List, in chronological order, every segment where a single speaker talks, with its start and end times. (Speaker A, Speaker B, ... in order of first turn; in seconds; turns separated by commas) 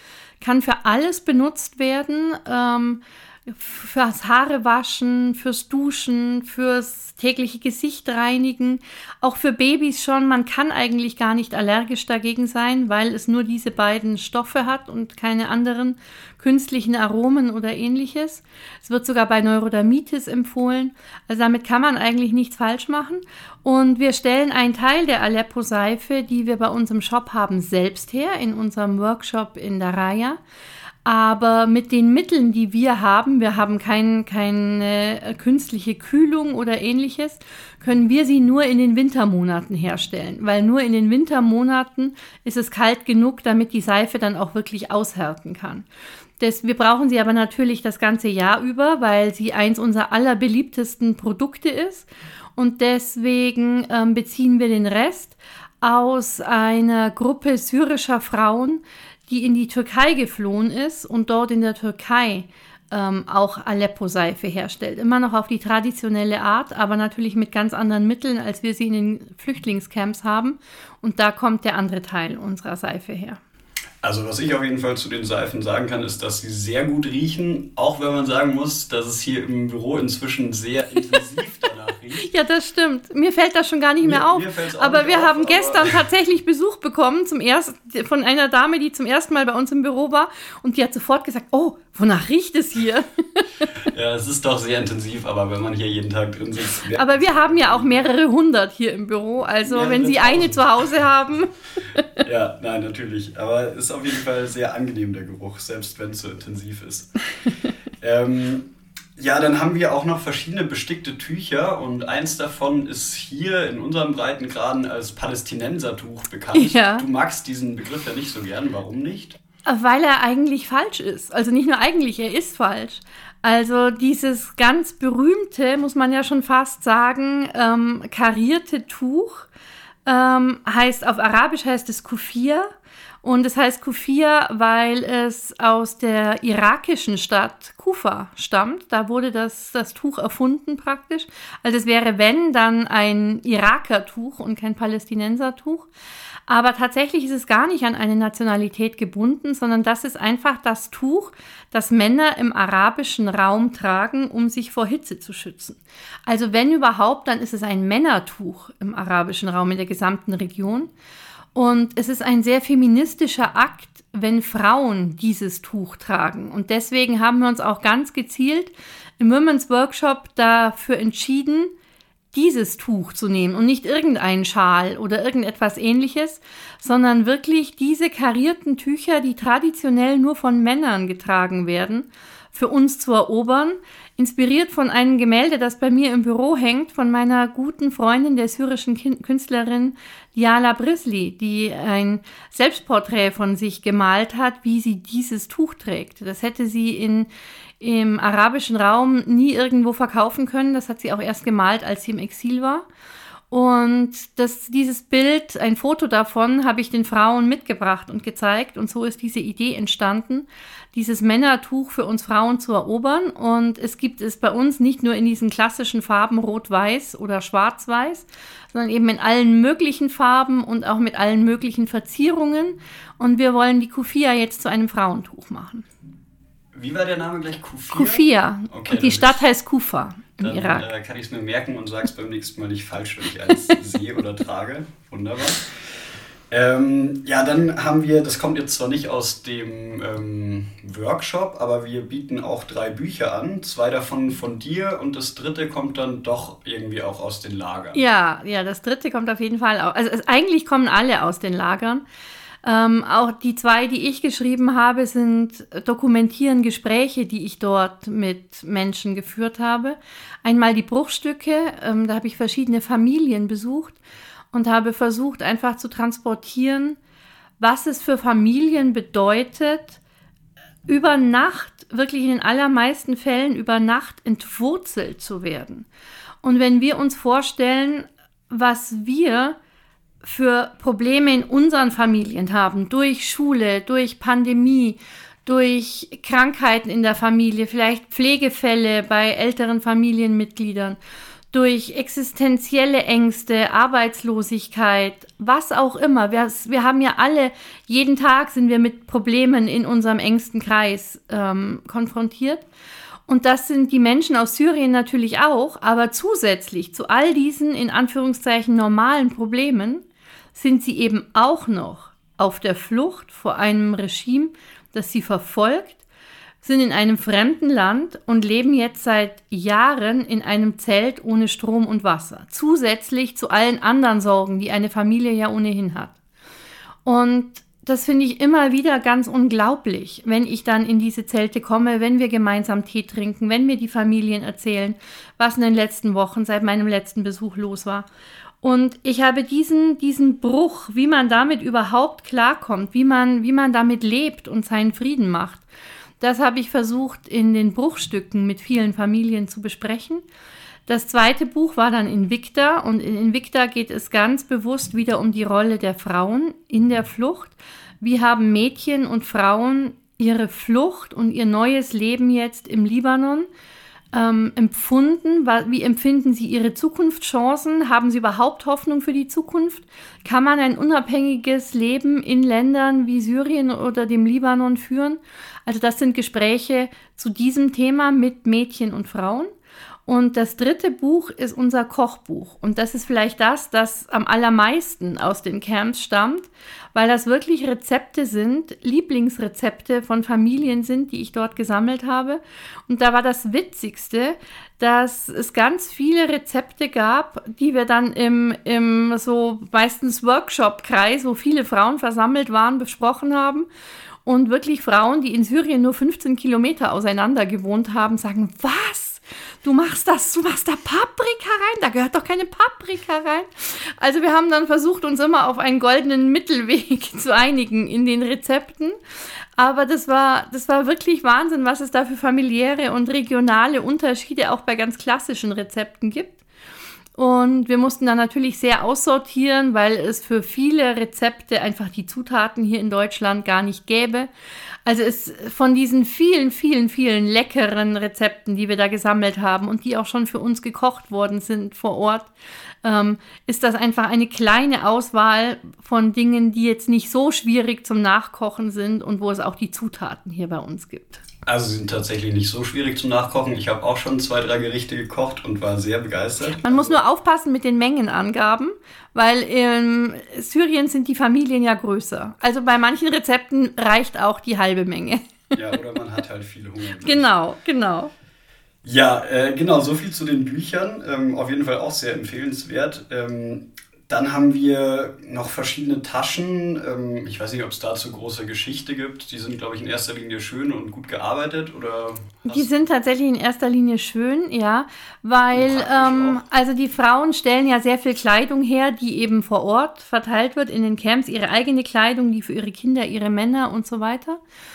Speaker A: 0.4-30.4, Speaker A: 31.0-45.9, Speaker A: 46.4-73.4, Speaker B: 74.0-82.3, Speaker A: 82.2-93.7, Speaker B: 84.0-86.0, Speaker B: 93.8-98.1, Speaker A: 96.9-102.1, Speaker B: 99.7-100.8, Speaker B: 102.2-107.2, Speaker B: 108.0-119.4, Speaker A: 116.5-117.0, Speaker A: 119.6-129.5, Speaker A: 130.1-132.7, Speaker A: 133.2-145.9, Speaker A: 146.5-160.9, Speaker A: 161.5-171.7, Speaker A: 172.3-197.3, Speaker A: 197.8-202.8, Speaker A: 203.5-225.9, Speaker B: 226.7-229.4, Speaker A: 227.9-230.9, Speaker B: 230.4-248.0, Speaker A: 247.9-252.0, Speaker A: 252.6-264.0, Speaker A: 264.5-267.0, Speaker A: 267.6-270.0, Speaker A: 270.9-275.9, Speaker A: 276.4-279.6, Speaker A: 280.2-291.0, Speaker A: 291.5-302.6, Speaker A: 303.3-316.0, Speaker A: 316.6-326.1, Speaker A: 327.0-338.1, Speaker A: 338.6-345.6, Speaker A: 346.2-350.2, Speaker A: 350.9-363.5, Speaker A: 364.1-379.5, Speaker A: 380.1-403.7, Speaker A: 404.2-418.9, Speaker A: 419.6-426.4, Speaker A: 427.1-434.3, Speaker A: 434.9-442.3, Speaker A: 442.8-451.2, Speaker B: 451.4-457.0, Speaker A: 456.6-465.4, Speaker B: 465.5-467.3, Speaker A: 467.0-468.1, Speaker B: 468.8-482.7, Speaker A: 482.4-494.4, Speaker B: 485.5-486.4